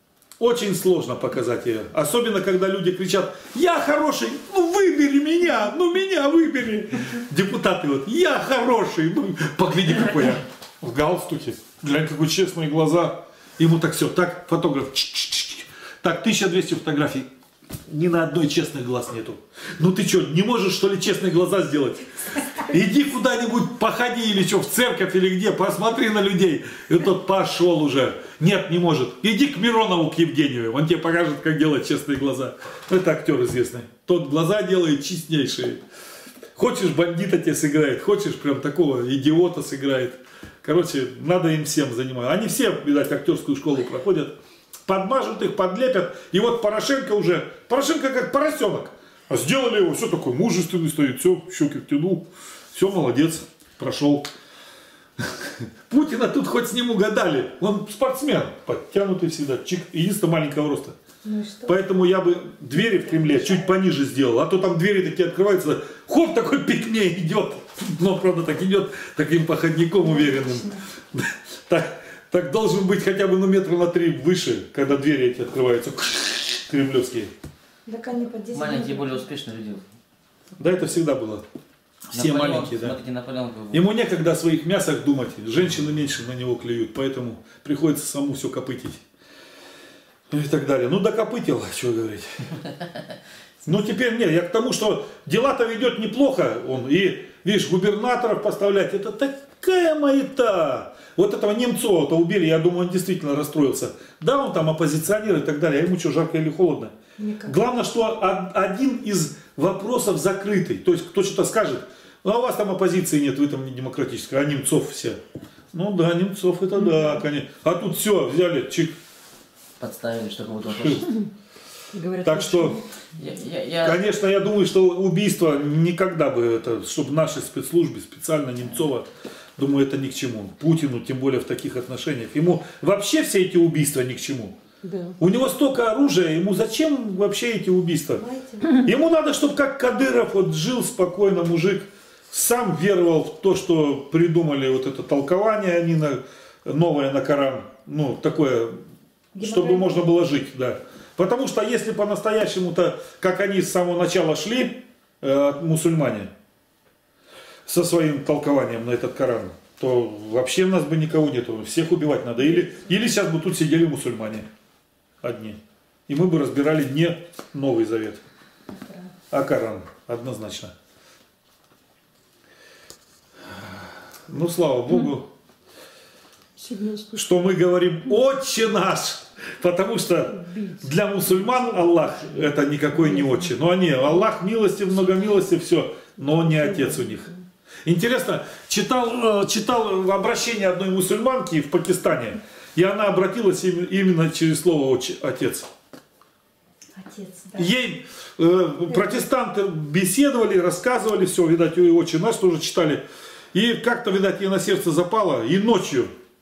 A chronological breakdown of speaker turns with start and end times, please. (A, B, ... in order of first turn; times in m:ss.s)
0:00.4-0:17.3 A
0:17.9-0:35.8 A
0:36.6-0:44.4 A
0:44.9-0:54.3 A
0:55.2-1:01.0 A
1:01.2-1:01.8 B
1:01.6-1:17.3 A
1:02.8-1:03.6 B
1:10.0-1:10.8 B
1:17.9-1:19.3 B
1:18.5-1:19.9 C
1:20.6-1:21.4 A
1:22.1-1:23.0 A
1:22.1-1:23.8 C
1:23.7-1:29.0 A
1:30.3-1:32.5 A
1:33.6-1:55.2 A
1:47.2-1:47.6 B
1:55.7-1:59.0 A
1:59.8-2:01.1 C
2:00.7-2:01.0 A
2:01.9-2:02.8 D
2:02.2-2:02.8 A
2:03.1-2:04.1 C
2:03.8-2:14.6 A
2:14.8-2:15.2 D
2:15.2-2:28.8 A
2:18.2-2:18.8 B
2:29.3-2:30.1 B
2:29.4-2:36.3 A
2:37.7-2:44.5 A
2:42.4-2:42.8 B
2:45.2-2:48.2 A
2:48.7-2:49.1 B
2:49.3-2:50.7 A
2:54.3-2:55.3 A
2:56.6-2:57.2 D
2:57.1-3:07.3 A
3:00.4-3:02.4 D
3:03.0-3:03.4 D
3:06.4-3:07.2 D
3:07.9-3:15.7 A
3:17.0-3:17.7 B
3:17.6-3:23.0 A
3:18.9-3:19.2 B
3:23.5-3:26.1 A